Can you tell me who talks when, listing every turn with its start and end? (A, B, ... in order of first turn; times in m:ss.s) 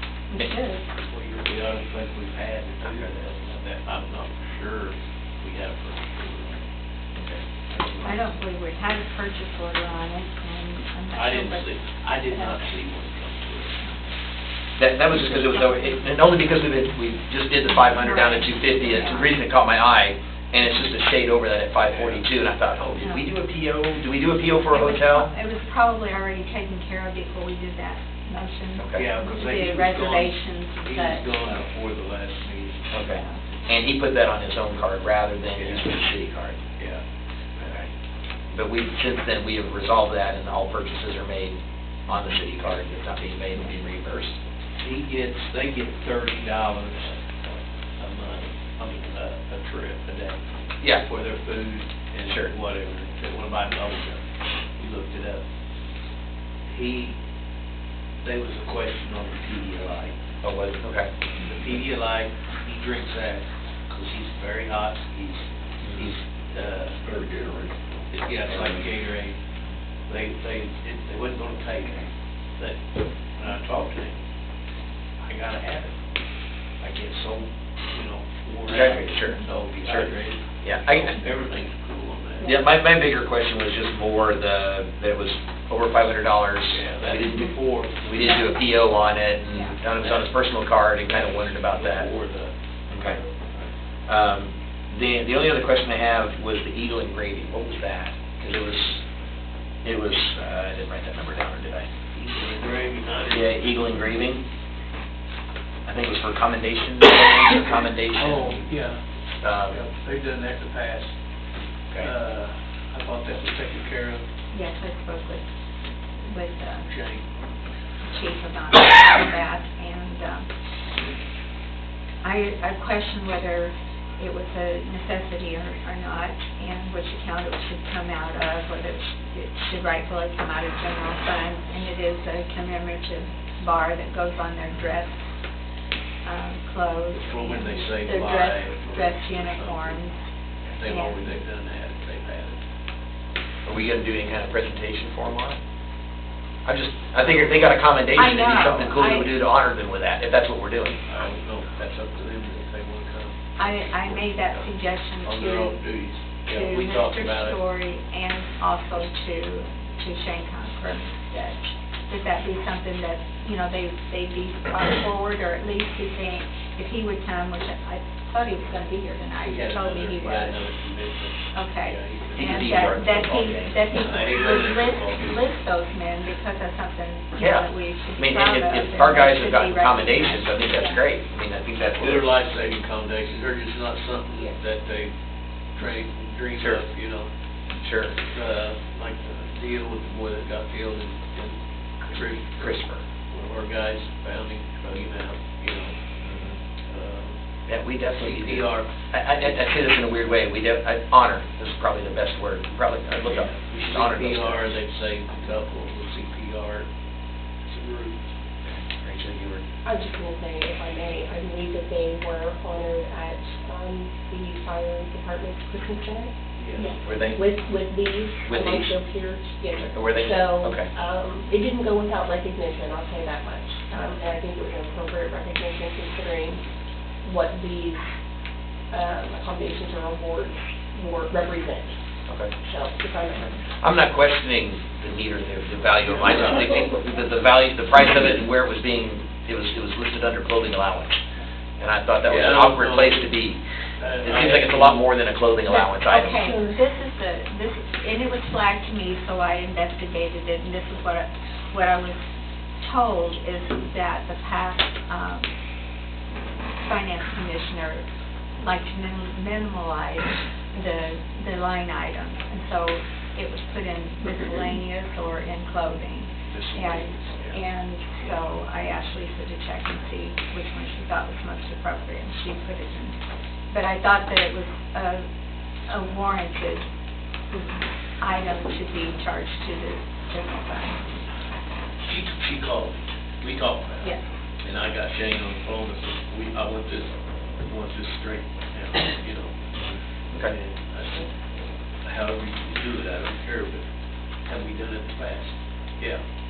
0:00.3-0:00.9 A
0:01.0-0:06.6 B
0:02.8-0:03.1 C
0:07.1-0:08.2 C
0:08.0-0:11.7 A
0:11.2-0:13.8 B
0:12.3-0:12.6 A
0:14.8-0:25.3 C
0:17.7-0:19.4 A
0:21.9-0:22.2 B
0:24.7-0:31.4 A
0:28.7-0:29.1 C
0:28.9-0:33.0 B
0:32.9-0:36.6 C
0:33.0-0:33.4 A
0:35.6-0:35.9 B
0:37.6-0:37.9 C
0:38.5-0:44.4 C
0:44.8-0:47.5 B
0:48.0-0:50.4 B
0:51.0-0:54.2 B
0:52.3-0:52.5 C
0:54.8-0:55.4 B
0:56.7-0:57.2 B
0:58.2-1:00.2 B
1:00.4-1:01.1 C
1:01.5-1:07.1 B
1:05.8-1:06.2 C
1:08.1-1:09.4 B
1:10.1-1:12.8 B
1:13.4-1:14.2 B
1:15.2-1:16.0 B
1:16.8-1:22.5 B
1:18.7-1:21.2 C
1:22.4-1:32.1 C
1:26.7-1:28.1 B
1:28.2-1:28.7 A
1:30.0-1:30.3 B
1:31.1-1:33.7 B
1:32.9-1:33.2 C
1:34.1-1:39.0 C
1:39.8-1:41.9 C
1:42.2-1:43.7 B
1:43.3-1:44.4 C
1:45.9-1:48.7 C
1:48.2-1:49.0 B
1:49.4-1:49.8 C
1:49.7-1:51.1 B
1:52.0-1:54.3 B
1:54.5-1:55.4 A
1:56.2-1:56.9 A
1:56.8-1:57.3 B
1:58.0-2:00.5 A
2:02.2-2:15.2 A
2:16.2-2:20.2 A
2:17.2-2:20.0 B
2:20.8-2:22.6 B
2:20.8-2:21.3 A
2:23.7-2:25.6 C
2:26.6-2:31.0 C
2:27.2-2:27.5 B
2:28.1-2:29.3 A
2:31.1-2:34.7 B
2:33.6-2:35.8 A
2:35.2-2:37.6 B
2:36.5-2:50.6 A
2:49.4-2:53.0 B
2:51.5-3:01.0 A
2:52.4-2:54.1 C
2:53.9-2:55.4 B
2:57.4-3:02.3 C
3:02.0-3:05.1 B
3:05.8-3:07.3 B
3:06.6-3:06.8 C
3:07.8-3:08.2 C
3:08.2-3:12.7 B
3:12.6-3:13.0 C
3:13.3-3:16.0 B
3:16.2-3:16.6 C
3:16.9-3:17.4 B
3:17.7-3:24.8 C
3:18.1-3:19.6 B
3:23.2-3:26.9 B
3:27.7-3:28.3 B
3:28.7-3:29.6 C
3:29.8-3:36.3 D
3:36.6-3:37.0 B
3:37.0-3:37.5 C
3:37.3-3:46.6 D
3:38.4-3:39.0 C
3:39.8-3:40.9 C
3:47.2-3:48.0 D
3:48.9-3:52.0 D
3:52.6-3:53.6 D
3:53.7-4:01.2 C
3:56.0-3:56.7 B
4:01.8-4:03.6 C
4:02.2-4:03.3 B
4:04.0-4:05.1 B
4:04.2-4:06.5 C
4:05.7-4:12.2 A
4:06.4-4:06.8 D
4:12.8-4:15.5 A
4:16.8-4:18.1 A
4:18.6-4:33.2 A
4:26.5-4:27.6 B
4:33.7-4:35.2 A
4:35.9-4:36.8 A
4:37.5-4:41.0 A
4:42.0-4:49.6 B
4:49.8-4:50.5 C
4:50.4-4:51.3 B
4:52.0-4:53.8 B
4:54.4-4:56.2 B